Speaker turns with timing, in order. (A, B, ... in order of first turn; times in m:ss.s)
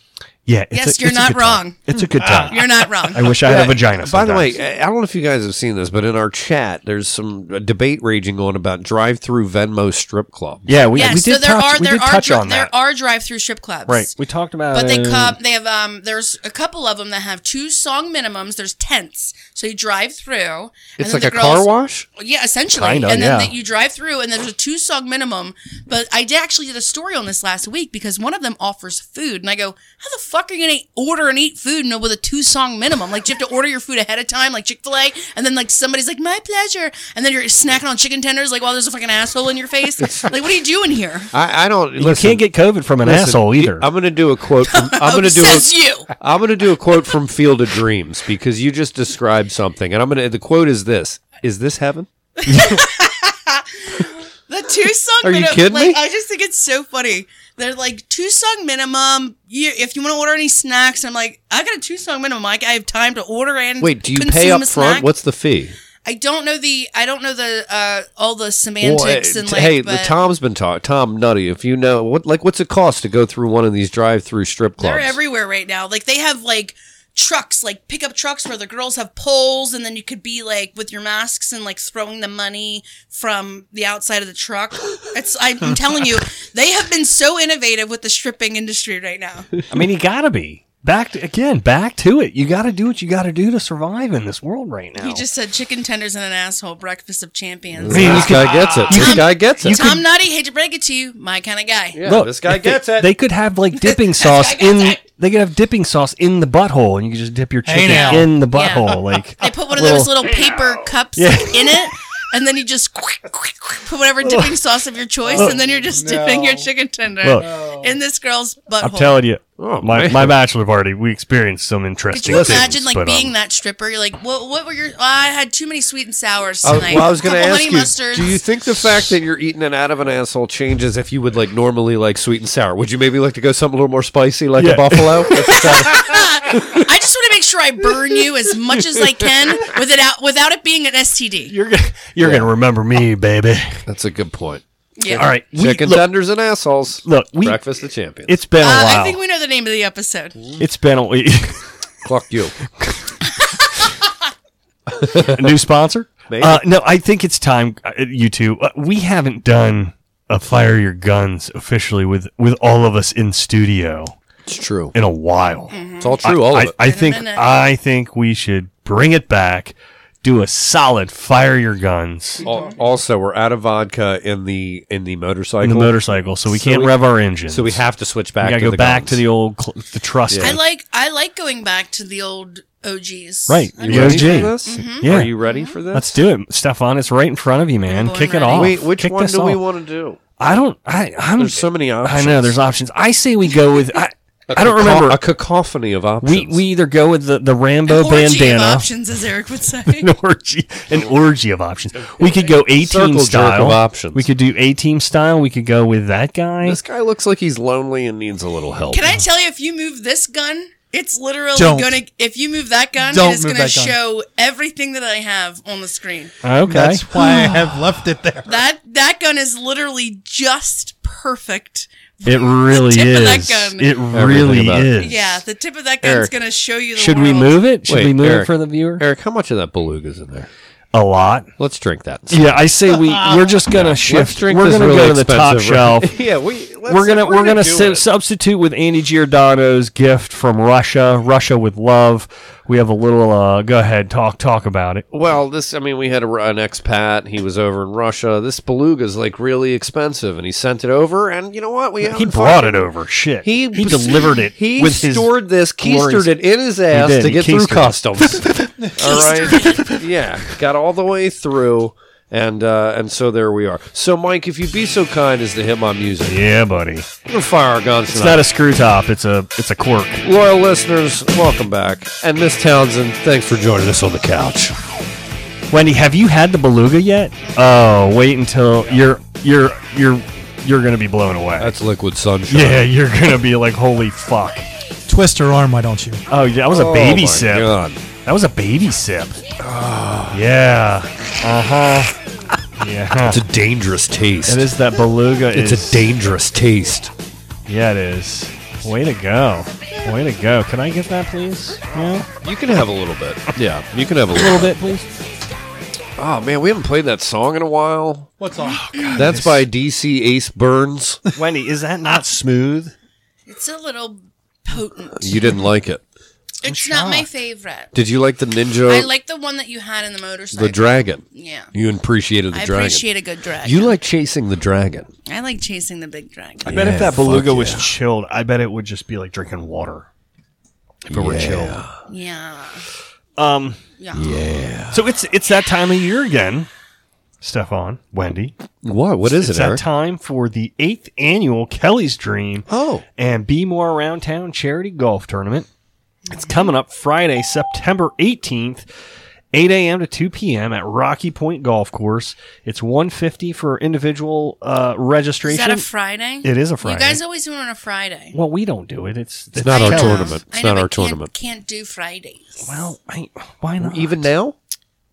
0:00.5-0:04.5 A
0:00.7-0:01.8 B
0:02.0-0:02.5 C
0:02.4-0:03.3 B
0:03.4-0:11.2 D
0:10.7-0:12.7 A
0:10.9-0:14.1 B
0:13.9-0:15.4 A
0:14.7-0:41.3 B
0:21.0-0:22.0 D
0:22.7-0:23.5 A
0:40.0-0:40.3 D
0:41.3-0:52.1 D
0:42.0-0:43.9 A
0:44.6-0:46.1 B
0:52.4-1:05.1 B
0:52.5-0:52.8 A
0:55.2-0:56.0 D
1:03.8-1:05.8 D
1:06.0-1:10.2 B
1:08.8-1:15.2 D
1:14.8-1:29.5 B
1:29.7-1:35.2 A
1:35.0-1:42.0 B
1:37.8-1:39.9 D
1:37.9-1:40.0 A
1:41.9-1:43.1 D
1:42.0-1:50.3 A
1:43.8-1:45.0 B
1:47.6-1:48.3 C
1:47.8-1:59.2 B
1:51.2-1:51.8 A
1:54.2-1:54.5 A
1:55.3-1:56.7 C
1:57.4-1:58.0 C
1:58.8-2:03.3 A
1:59.6-2:00.4 D
2:02.1-2:08.4 B
2:02.2-2:02.7 D
2:06.6-2:16.6 D
2:14.6-2:16.1 A
2:15.4-2:21.5 B
2:21.5-2:23.8 A
2:22.2-2:22.5 D
2:23.8-2:28.4 D
2:25.0-2:25.3 B
2:25.2-2:26.1 A
2:27.0-2:27.6 A
2:28.2-2:29.2 A
2:28.6-2:30.4 B
2:30.6-2:31.6 A
2:32.0-2:32.6 D
2:34.9-2:35.5 D
2:35.0-2:44.1 A
2:36.3-2:36.6 D
2:44.4-2:44.9 D
2:44.9-2:52.4 A
2:45.7-2:47.6 B
2:46.0-2:46.7 D
2:52.4-2:52.7 B
2:52.4-2:59.2 D
2:55.6-2:57.8 A
2:58.4-3:00.6 A
3:00.3-3:00.6 D
3:00.4-3:05.8 B
3:03.5-3:05.3 A
3:03.8-3:06.2 D
3:05.9-3:09.6 A
3:07.9-3:08.8 B
3:08.5-3:10.2 D
3:10.4-3:15.2 A
3:11.4-3:12.6 D
3:14.5-3:16.6 D
3:16.2-3:18.9 A
3:17.9-3:20.1 B
3:19.9-3:26.8 A
3:22.6-3:24.3 D
3:26.6-3:29.2 D
3:28.9-3:36.3 B
3:31.6-3:32.0 C
3:33.0-3:34.0 C
3:36.4-3:37.0 A
3:36.6-3:38.6 C
3:38.4-3:44.0 B
3:42.2-3:45.4 A
3:44.1-3:45.0 D
3:45.0-3:47.6 B
3:46.0-3:46.3 D
3:47.0-3:49.0 A
3:47.9-3:50.5 D
3:50.9-3:51.5 A
3:51.6-3:58.0 D
3:52.3-3:56.2 A
3:56.9-4:05.0 A
4:05.1-4:12.9 D
4:12.0-4:18.4 A
4:13.4-4:26.4 D
4:18.8-4:19.1 C
4:19.0-4:19.9 B
4:26.2-4:27.1 A
4:27.2-4:28.5 D
4:28.1-4:30.2 A
4:30.2-4:34.7 D
4:35.7-4:41.7 A
4:41.6-4:42.9 D
4:42.5-4:44.6 A
4:45.1-4:46.2 C
4:46.3-4:47.7 A
4:46.7-4:48.0 D
4:48.2-4:49.4 A
4:49.6-4:50.4 D
4:50.3-4:52.1 A
4:52.8-4:53.4 A
4:53.3-4:54.7 D
4:54.5-4:56.1 A
4:55.5-4:57.1 D
4:57.7-5:02.3 A
5:02.4-5:04.7 D
5:04.3-5:05.1 A
5:06.2-5:08.3 D
5:08.4-5:09.1 C
5:08.8-5:09.6 A
5:09.1-5:11.2 D
5:11.3-5:12.9 A
5:13.5-5:15.6 B
5:15.2-5:16.0 D
5:16.6-5:17.9 B
5:16.6-5:17.3 A
5:17.9-5:19.1 D
5:18.8-5:21.7 B
5:20.5-5:23.0 D
5:22.5-5:23.9 B
5:23.6-5:25.1 D
5:25.3-5:26.8 B
5:26.6-5:27.9 D
5:26.6-5:30.1 A
5:31.0-5:31.8 A
5:31.1-5:31.9 D
5:32.1-5:32.8 B
5:33.4-5:33.8 A
5:34.0-5:34.3 B
5:34.1-5:35.0 D
5:34.9-5:36.7 A
5:37.4-5:38.5 A
5:38.8-5:39.8 D
5:39.2-5:42.6 A
5:42.7-5:43.0 D
5:43.2-5:45.7 A
5:46.3-5:46.7 B
5:46.3-5:48.8 A
5:49.5-5:55.8 A
5:55.4-5:58.3 B
5:56.4-5:57.2 A
5:58.3-6:00.4 A
5:59.5-6:01.3 D
5:59.7-6:02.8 B
6:02.6-6:04.3 A
6:03.8-6:04.6 D